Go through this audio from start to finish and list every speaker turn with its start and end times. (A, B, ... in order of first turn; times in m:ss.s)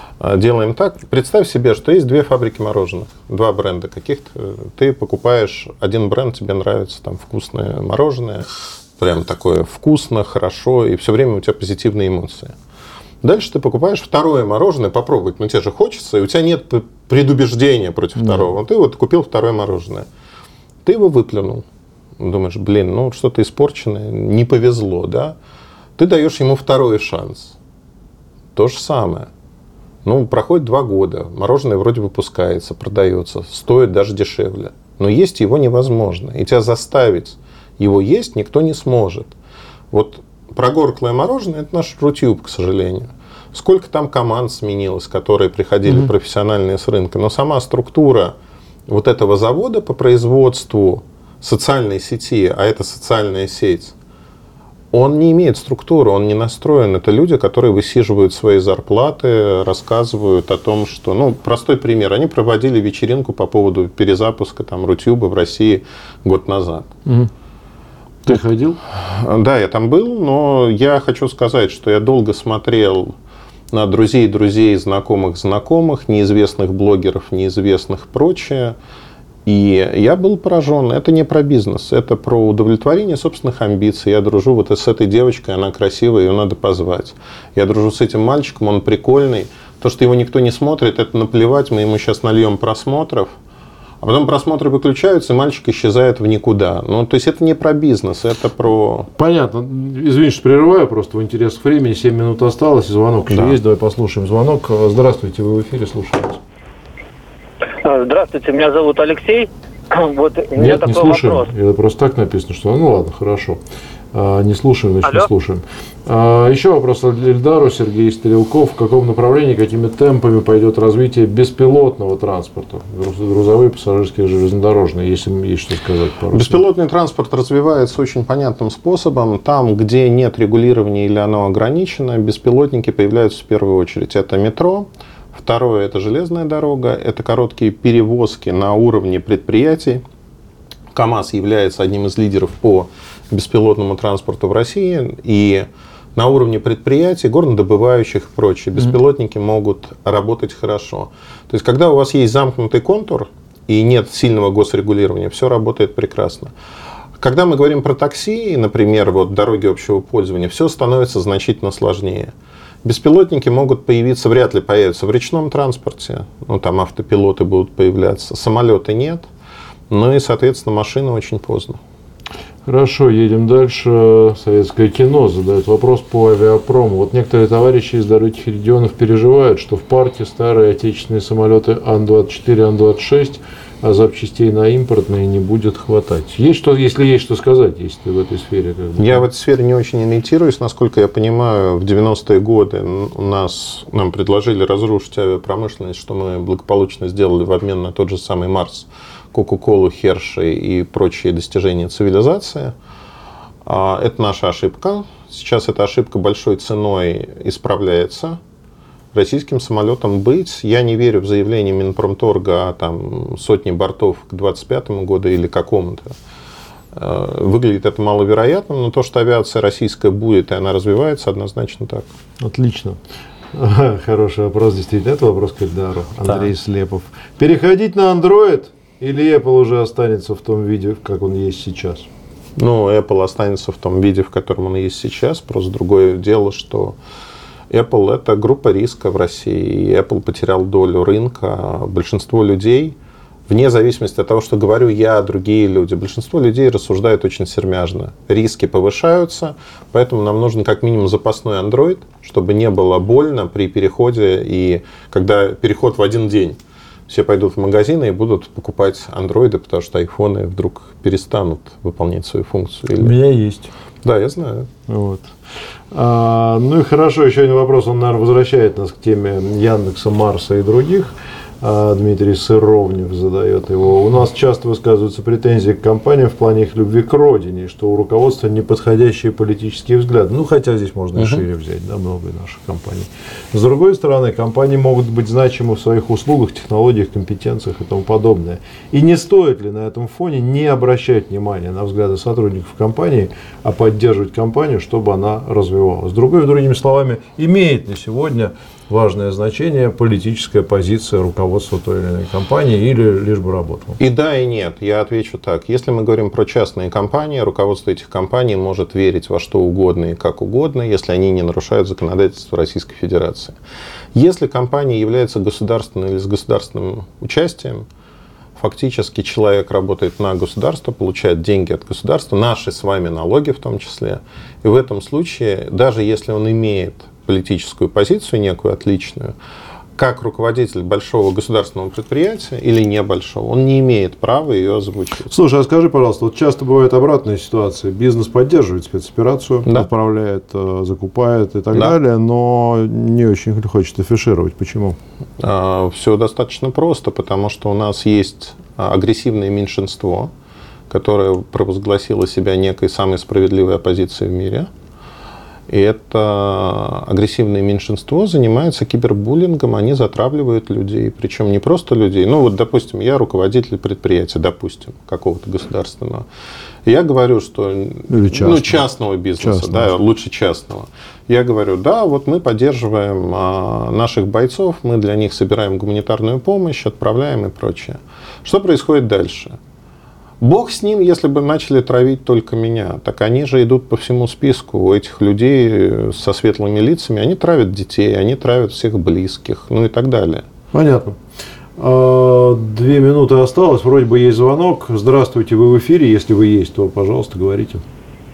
0:00.2-0:12.5 A
0:13.2-0:20.1 A
0:18.2-0:18.5 B
0:20.8-0:21.6 A
0:22.2-0:25.4 A
0:26.0-0:27.6 A
0:28.5-0:29.3 A
0:30.0-0:39.4 A
0:39.9-0:48.3 A
0:48.9-0:53.9 A
0:54.9-1:06.9 A
1:08.2-1:08.8 B
1:08.9-1:13.1 A
1:13.7-1:18.8 A
1:19.4-1:33.3 A
1:34.0-1:39.1 A
1:39.2-1:46.4 B
1:43.3-1:43.6 A
1:47.8-1:51.5 C
1:50.6-1:53.6 B
1:54.1-2:06.6 B
2:06.3-2:20.0 A
2:20.9-2:36.5 A
2:37.2-2:42.3 A
2:42.8-2:49.3 A
2:49.9-2:51.8 A
2:52.6-3:09.2 B
3:09.0-3:22.7 A
3:23.6-3:28.4 A
3:29.1-3:36.2 A
3:36.9-3:42.1 A
3:42.4-3:43.0 B
3:43.5-3:52.1 B
3:52.6-3:57.0 A
3:57.7-4:03.0 A
4:03.5-4:23.2 A
4:23.0-4:23.7 B
4:24.0-4:24.7 A
4:24.9-4:25.3 B
4:25.9-5:04.0 B
4:41.2-4:41.4 A
5:04.0-5:13.6 A
5:14.1-5:17.9 A
5:18.6-5:29.3 A
5:30.0-5:35.3 A
5:35.3-5:45.0 B
5:45.4-5:50.3 A
5:50.9-5:54.7 A
5:55.7-6:06.2 A
6:06.8-6:19.6 A
6:08.1-6:08.8 B
6:09.4-6:09.9 B
6:20.4-6:30.4 A
6:30.7-6:31.2 B
6:31.8-6:37.8 B